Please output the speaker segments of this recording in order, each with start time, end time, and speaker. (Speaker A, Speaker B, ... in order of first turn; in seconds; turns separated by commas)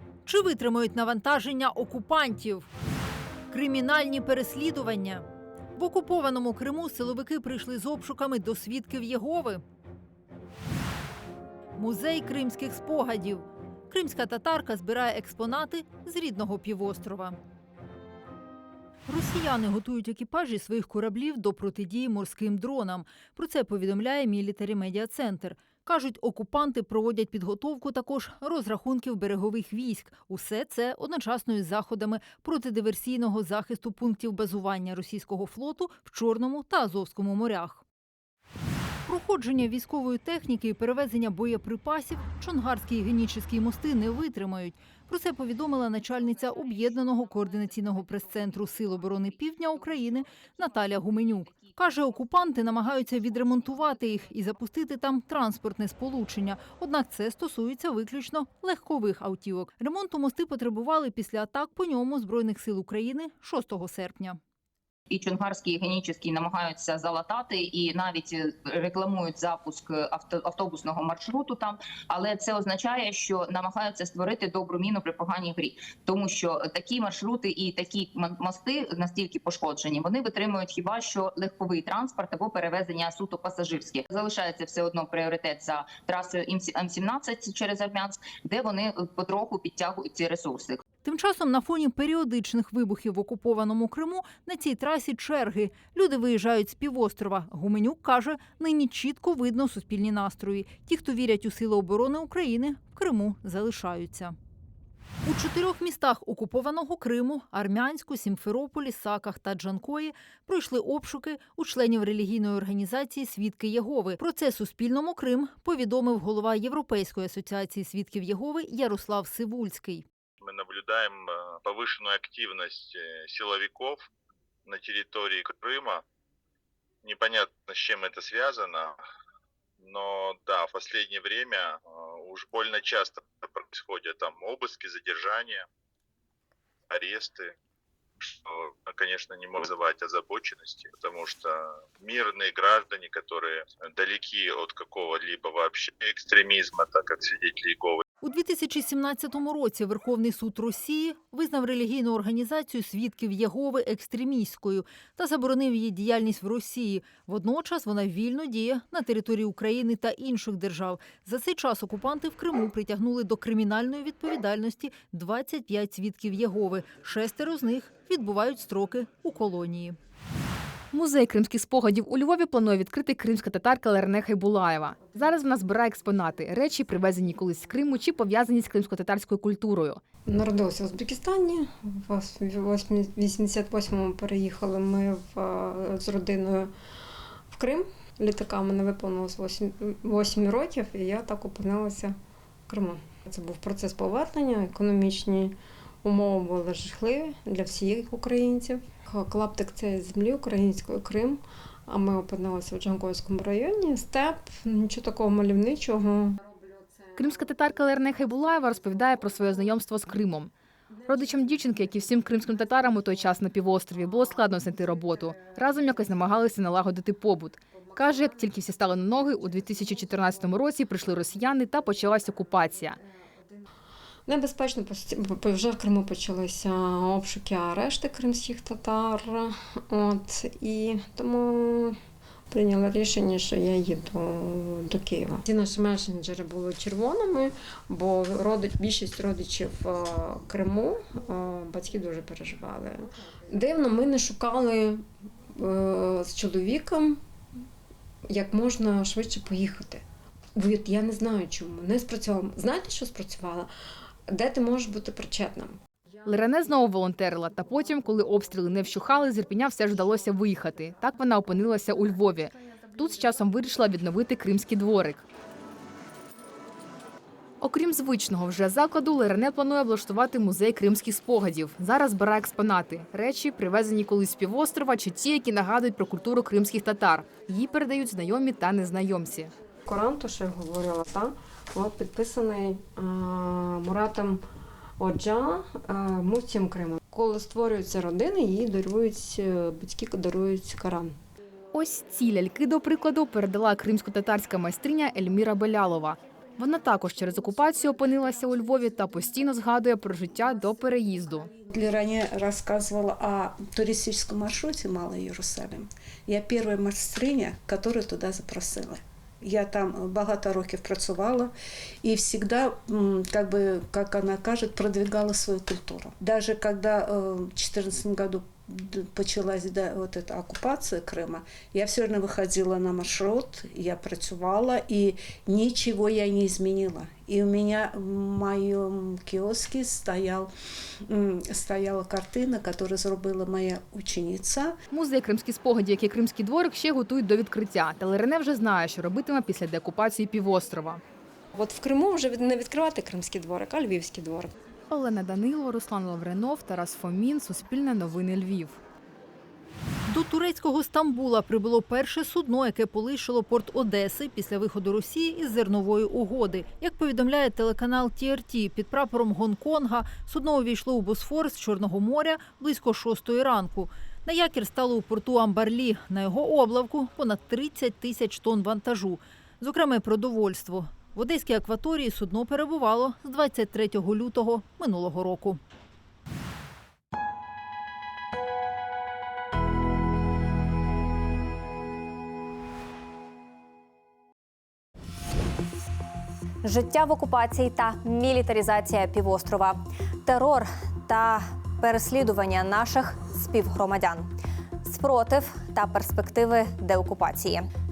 Speaker A: 0.2-2.7, Speaker A: 3.5-9.6, Speaker A: 11.8-17.4, Speaker A: 19.1-37.8, Speaker A: 39.0-64.4, Speaker B: 65.1-90.8, Speaker A: 91.0-104.3, Speaker A: 105.2-120.0, Speaker C: 120.4-124.0, Speaker C: 124.7-126.0, Speaker C: 127.0-128.9, Speaker C: 129.8-135.6, Speaker C: 136.9-137.5, Speaker C: 138.2-148.0, Speaker A: 148.2-170.0, Speaker D: 170.9-180.0, Speaker E: 180.2-186.7, Speaker E: 187.5-192.1, Speaker E: 192.7-206.4, Speaker D: 207.2-210.5, Speaker D: 211.1-223.0, Speaker E: 211.1-213.3, Speaker E: 214.4-216.3, Speaker E: 217.8-222.9, Speaker E: 224.3-232.0, Speaker E: 232.5-247.2, Speaker E: 248.3-250.0, Speaker E: 250.6-253.7, Speaker E: 254.3-255.8, Speaker D: 256.2-265.2, Speaker D: 267.6-279.5, Speaker E: 279.9-284.4, Speaker E: 285.0-291.1, Speaker D: 291.7-301.5, Speaker F: 301.7-311.5, Speaker F: 312.0-330.5, Speaker F: 331.1-334.7, Speaker D: 334.9-341.0, Speaker E: 341.5-344.5, Speaker D: 344.9-348.8, Speaker A: 350.1-375.6, Speaker G: 386.6-394.3, Speaker G: 394.8-397.7